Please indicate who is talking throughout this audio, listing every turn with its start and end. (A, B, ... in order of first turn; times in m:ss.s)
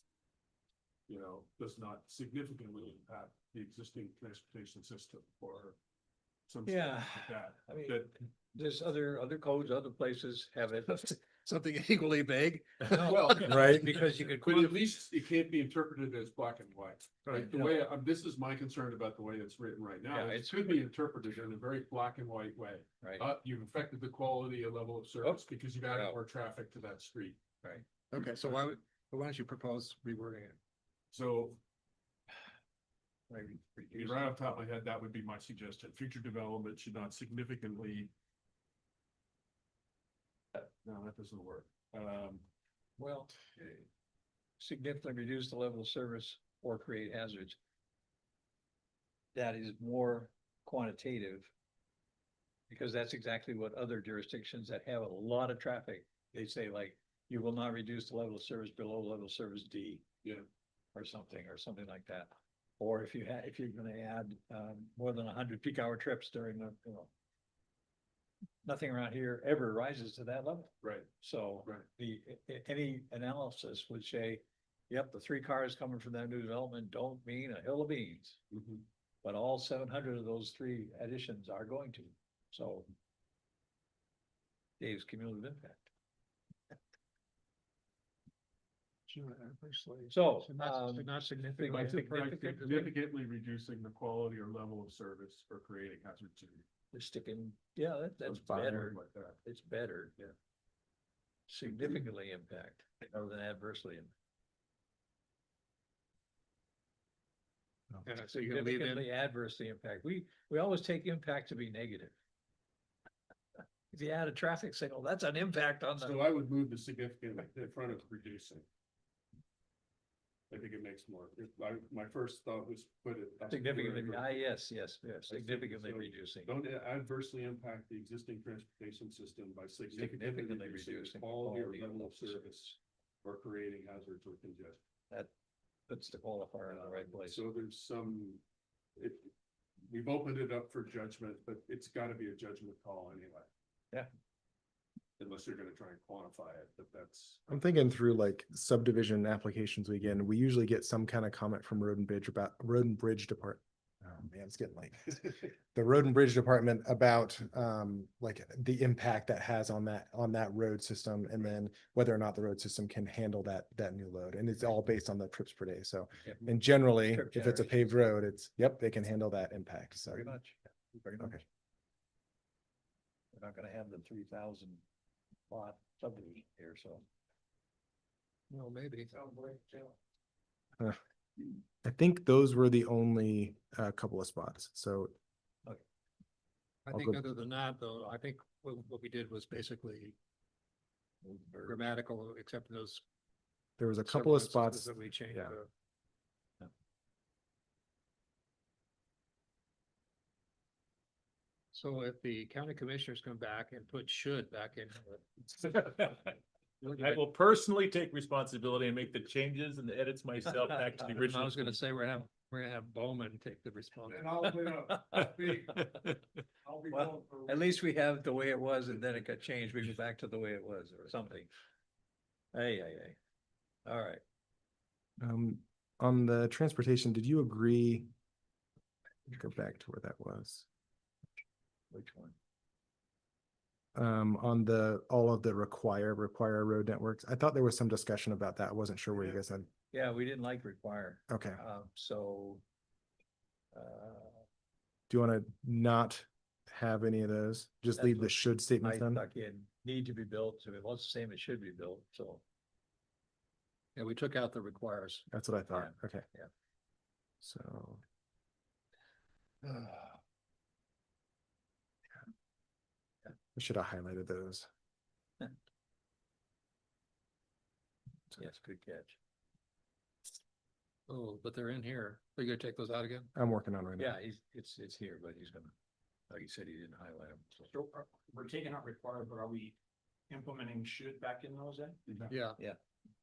0:01.1-0:05.8 A
0:06.5-0:08.2 A
0:06.7-0:11.2 B
0:11.2-0:13.8 C
0:12.9-0:14.8 B
0:12.9-0:27.4 A
0:13.4-0:13.9 D
0:17.3-0:17.9 B
0:20.1-0:20.8 B
0:23.0-0:23.3 B
0:25.2-0:26.2 B
0:28.1-0:30.6 C
0:31.1-0:31.6 A
0:33.3-0:34.7 B
0:33.9-0:38.1 A
0:40.6-0:42.4 A
0:43.0-0:43.4 B
0:44.6-0:47.6 B
0:49.3-0:51.5 B
0:52.7-1:00.0 B
1:00.9-1:07.1 B
1:08.6-1:18.4 B
1:10.8-1:11.1 A
1:18.5-1:18.8 A
1:19.2-1:22.9 B
1:24.8-1:25.9 B
1:29.1-1:32.9 C
1:30.1-1:32.9 B
1:31.7-1:36.6 A
1:36.9-1:40.2 B
1:38.2-1:39.4 A
1:41.5-1:44.1 B
1:48.0-1:49.1 C
1:48.3-1:52.2 B
1:53.9-1:56.2 B
1:56.0-1:58.6 A
2:00.5-2:04.4 A
2:03.5-2:06.6 B
2:05.3-2:14.8 A
2:09.9-2:12.8 B
2:15.9-2:17.4 B
2:16.7-2:18.4 A
2:19.0-2:19.3 A
2:19.9-2:23.5 A
2:25.2-2:27.4 A
2:27.5-2:50.4 D
2:46.2-2:48.0 B
2:50.1-2:51.4 B
2:53.3-2:54.8 B
2:55.5-2:57.1 B
2:58.5-2:59.1 C
2:59.1-3:00.0 E
3:01.8-3:05.1 D
3:06.9-3:10.2 C
3:06.9-3:07.2 D
3:11.2-3:11.8 B
3:11.6-3:13.0 C
3:13.8-3:15.6 D
3:14.0-3:15.7 C
3:21.7-3:25.8 C
3:25.9-3:26.2 F
3:26.8-3:31.8 F
3:31.2-3:34.5 C
3:34.4-3:35.9 B
3:34.6-3:35.0 E
3:35.1-3:36.2 F
3:36.8-3:37.1 E
3:36.9-3:41.5 B
3:42.5-3:43.2 B
3:43.8-3:44.2 B
3:45.2-3:48.1 D
3:49.3-3:50.7 D
3:51.9-3:52.4 B
3:54.0-3:59.7 D
3:59.9-4:02.6 B
4:01.3-4:01.6 D
4:03.7-4:04.4 B
4:05.1-4:09.2 D
4:08.0-4:12.4 B
4:14.0-4:15.2 C
4:15.3-4:16.2 D
4:15.7-4:16.5 B
4:17.4-4:18.0 D
4:23.6-4:24.7 D
4:28.4-4:29.2 B
4:31.1-4:33.3 C
4:33.4-4:34.2 D
4:34.0-4:35.7 B
4:36.3-4:37.7 B
4:37.7-4:39.8 E
4:40.3-4:42.3 E
4:42.3-4:42.6 C